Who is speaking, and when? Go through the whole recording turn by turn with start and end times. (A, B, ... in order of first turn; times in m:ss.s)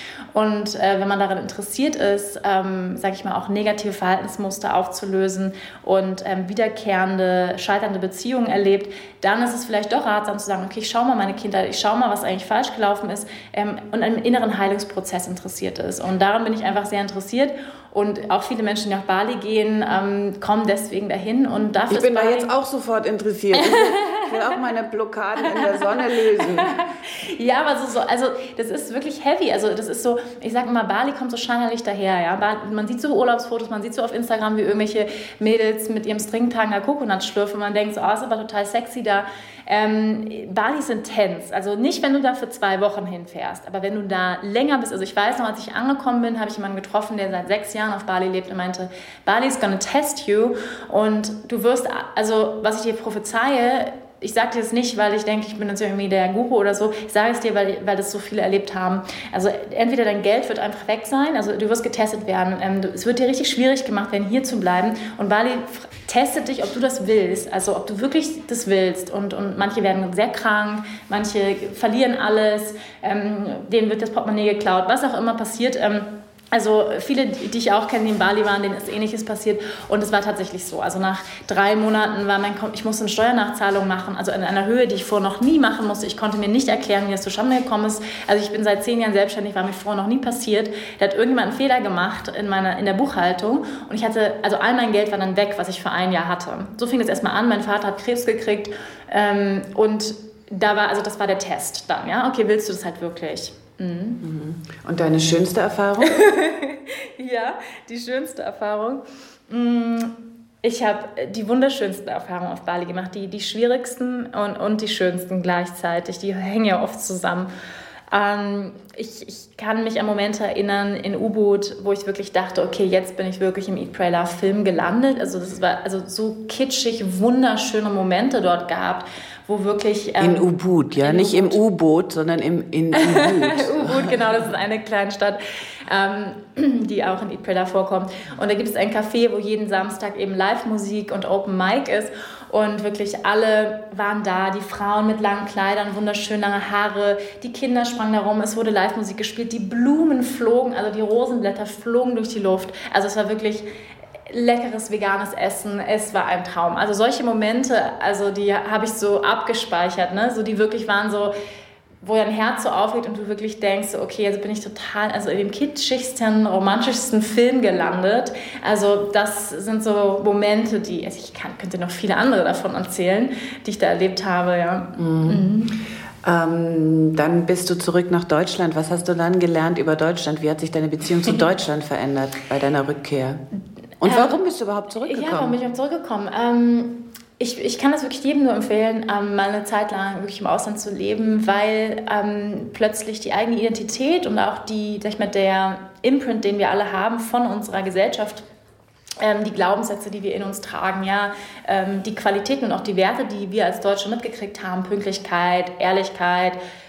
0:00.3-0:22.5 A
0:21.9-0:26.7 B
0:23.6-0:24.3 A
0:26.4-1:44.2 A
1:44.2-1:46.2 B
1:46.0-1:57.5 A
1:58.1-2:11.6 A
2:10.2-2:14.2 B
2:12.9-2:33.6 A
2:34.3-2:41.3 A
2:42.0-2:55.8 A
2:55.0-2:55.4 B
2:56.2-3:03.4 B
3:04.0-3:05.6 B
3:04.0-3:04.3 A
3:05.0-3:18.4 A
3:19.2-3:26.6 A